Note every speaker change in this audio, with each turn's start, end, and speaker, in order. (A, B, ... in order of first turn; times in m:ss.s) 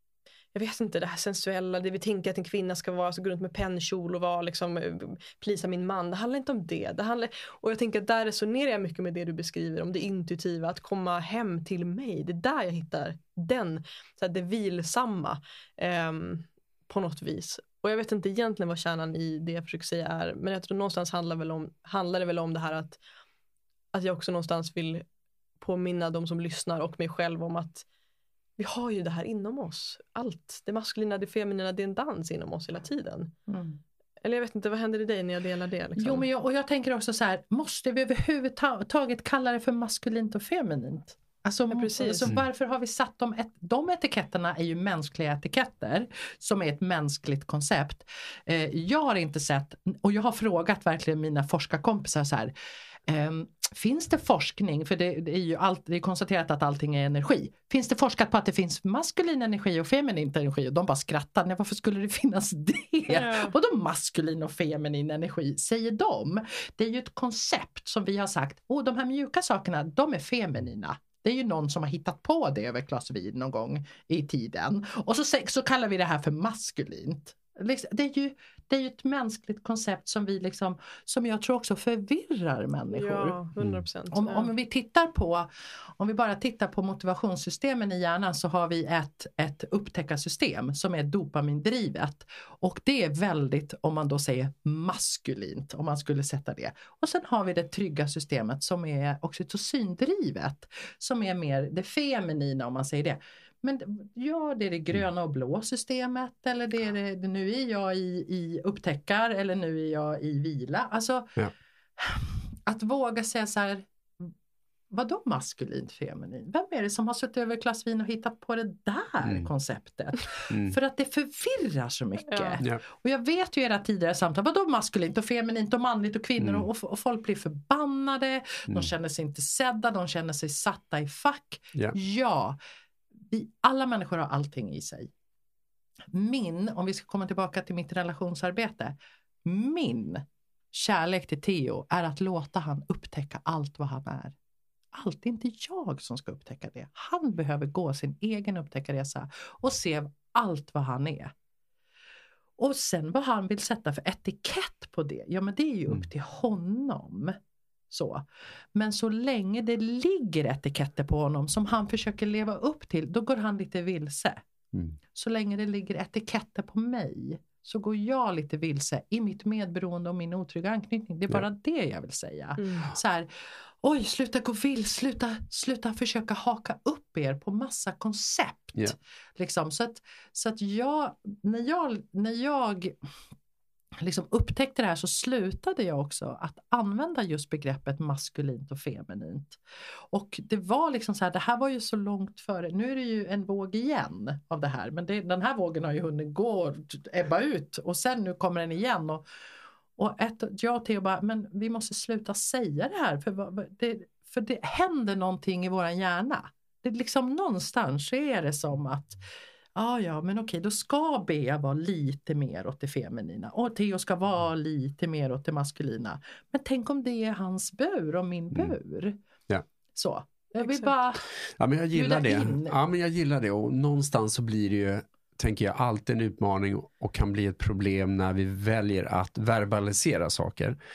0:00.5-0:23.0 A
0:23.9-0:25.1 A
0:25.6-0:27.9 A
0:28.6-0:33.3 A
0:33.5-0:33.8 B
0:34.2-0:36.2 A
0:36.0-0:52.5 B
0:41.7-0:42.3 A
0:53.1-1:23.4 B
1:03.1-1:03.6 A
1:22.9-1:24.5 A
1:23.6-1:23.8 C
1:24.1-1:25.5 B
1:26.0-1:51.3 B
1:52.0-1:54.3 B
1:54.9-2:12.6 B
2:00.5-2:00.7 C
2:02.3-2:02.6 A
2:06.4-2:06.6 C
2:13.3-2:15.1 B
2:16.1-2:24.4 B
2:24.9-2:31.3 B
2:32.6-2:37.4 B
2:37.9-2:44.4 B
2:45.1-3:02.9 B
2:52.6-2:52.9 A
3:04.0-3:09.6 B
3:10.1-3:19.2 B
3:20.0-3:29.2 B
3:29.7-3:39.2 B
3:39.9-3:41.3 B
3:41.4-3:50.7 C
3:41.9-3:42.8 B